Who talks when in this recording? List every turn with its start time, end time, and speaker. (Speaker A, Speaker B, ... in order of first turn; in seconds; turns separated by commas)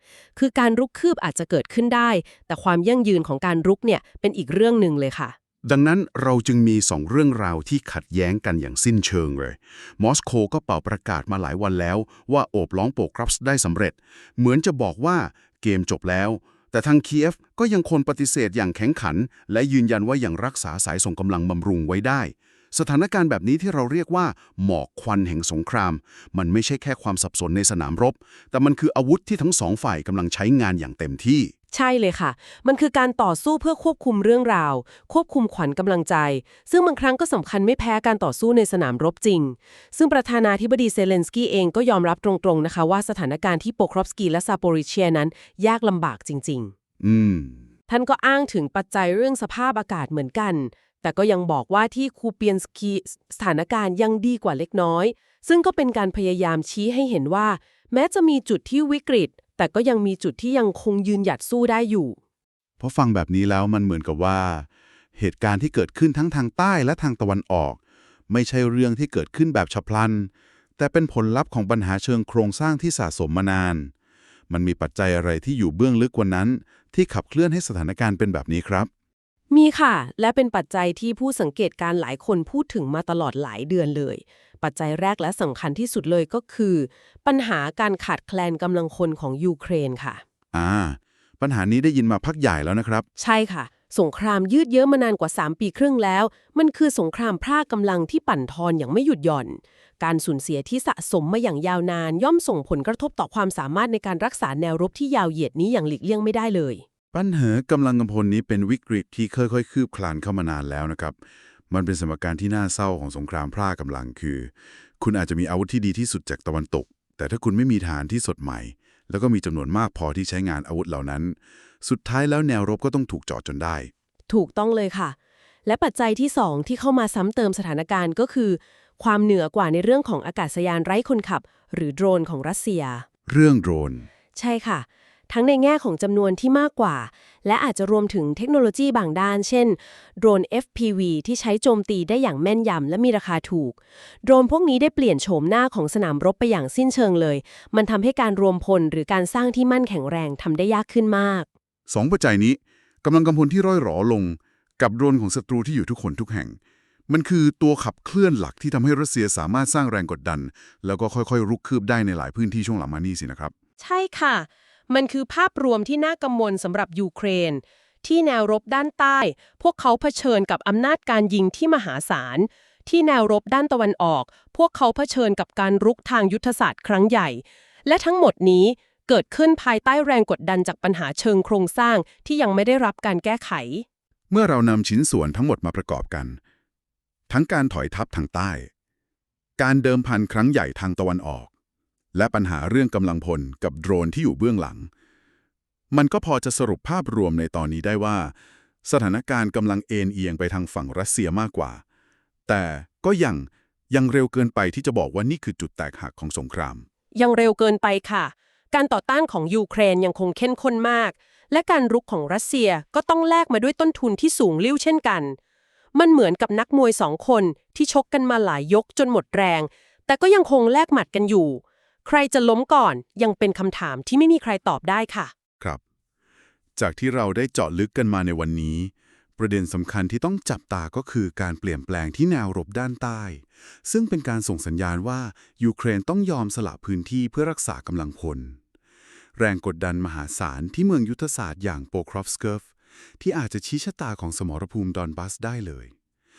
Speaker A: 0.4-5.3, Speaker B: 5.6-31.5, Speaker A: 31.7-46.7, Speaker B: 47.0-47.6, Speaker A: 47.9-62.2, Speaker B: 62.8-73.9, Speaker B: 74.5-78.9, Speaker A: 79.5-90.2, Speaker B: 90.5-93.0, Speaker A: 93.2-106.8, Speaker B: 107.1-111.2, Speaker B: 111.7-123.9, Speaker A: 124.3-133.1, Speaker B: 133.3-134.1, Speaker A: 134.4-151.5, Speaker B: 151.9-156.6, Speaker B: 157.1-163.5, Speaker A: 163.8-183.8, Speaker B: 184.3-186.4, Speaker B: 187.3-188.7, Speaker B: 189.6-191.5, Speaker B: 192.1-194.9, Speaker B: 195.9-201.8, Speaker B: 202.5-206.8, Speaker A: 207.2-215.4, Speaker A: 215.9-225.3, Speaker B: 226.8-238.6, Speaker B: 239.4-242.7, Speaker B: 243.2-245.9